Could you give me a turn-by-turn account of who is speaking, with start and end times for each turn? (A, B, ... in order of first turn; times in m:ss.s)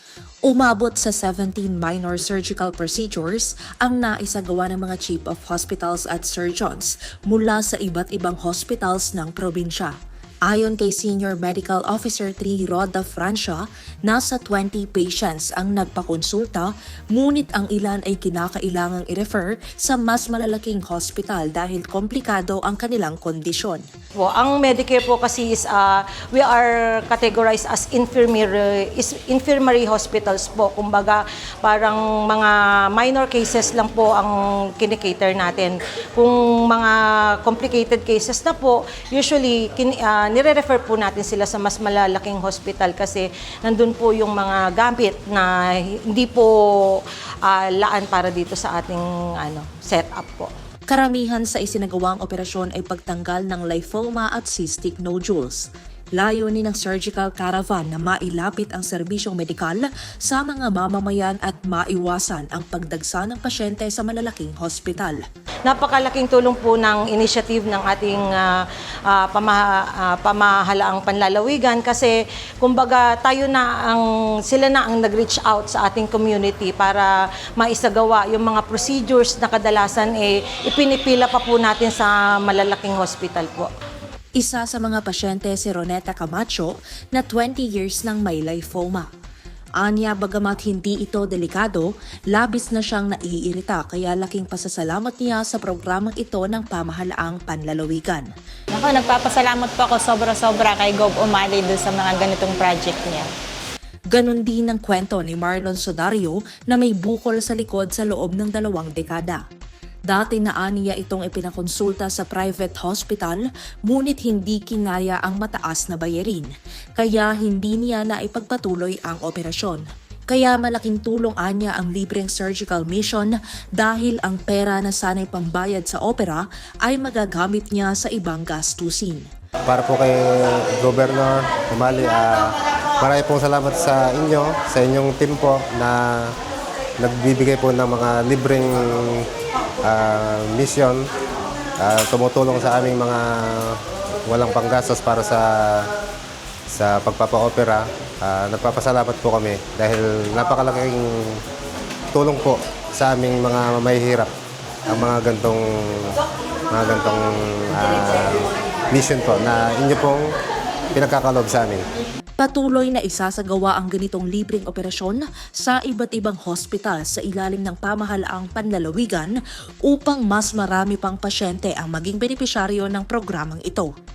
0:00.5-0:10.0 A
0:10.5-0:23.8 A
0:24.2-0:50.5 B
0:50.9-1:05.2 A
1:05.7-1:23.7 B
1:24.4-1:29.1 A
1:29.8-1:38.3 A
1:38.7-1:43.3 C
1:44.1-1:49.4 A
1:50.1-2:09.3 A
2:09.7-2:16.3 D
2:17.0-2:19.2 D
2:19.8-2:21.1 D
2:21.8-2:25.9 D
2:26.7-2:31.4 D
2:32.1-2:34.3 D
2:34.9-2:36.2 D
2:36.7-2:40.2 D
2:40.9-2:41.8 D
2:42.4-2:53.9 A